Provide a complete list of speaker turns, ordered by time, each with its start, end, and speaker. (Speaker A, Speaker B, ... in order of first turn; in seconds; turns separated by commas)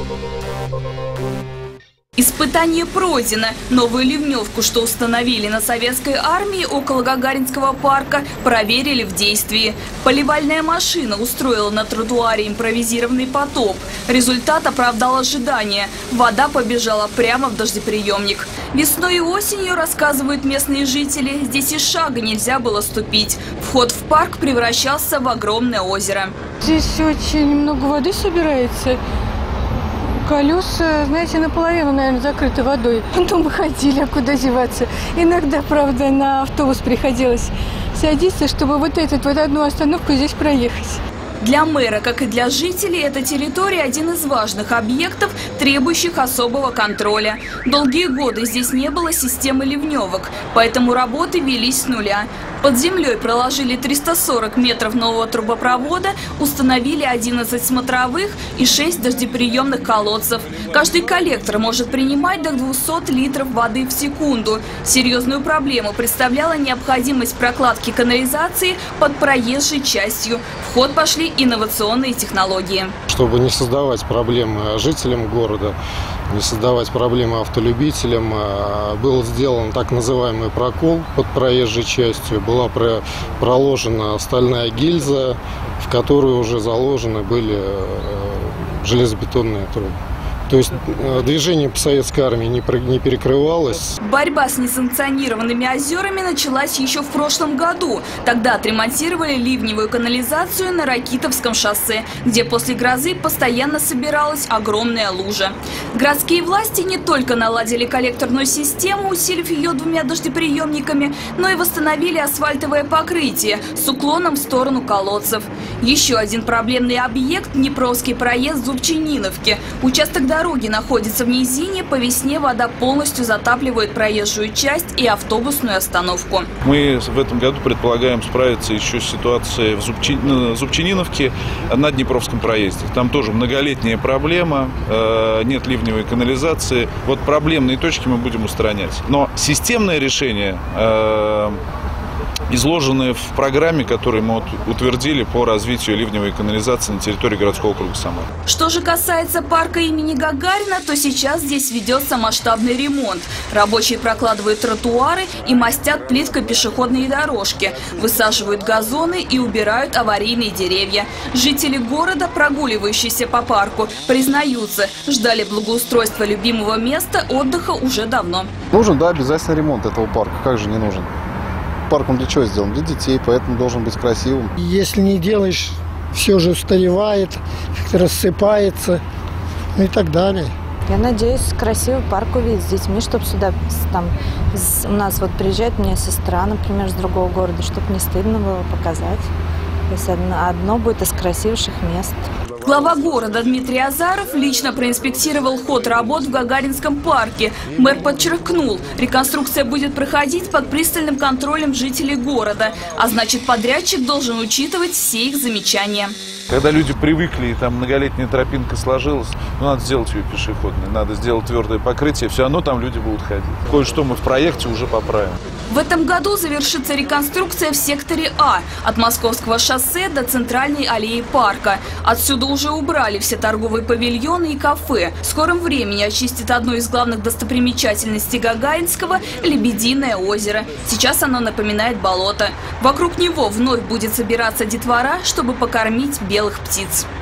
Speaker A: 2.2-26.3, Speaker B: 26.6-29.0, Speaker B: 30.2-41.0, Speaker A: 41.4-72.9, Speaker C: 73.1-75.8, Speaker C: 76.3-90.0, Speaker C: 90.5-93.9, Speaker A: 94.0-126.5, Speaker D: 126.6-141.6, Speaker D: 142.5-148.3, Speaker A: 148.5-168.5, Speaker E: 168.7-171.1, Speaker E: 171.9-174.5, Speaker F: 174.6-179.0, Speaker F: 179.8-180.5, Speaker G: 180.9-189.2, Speaker G: 189.9-192.2, Speaker A: 192.6-206.2, Speaker D: 206.5-215.4, Speaker A: 215.7-237.1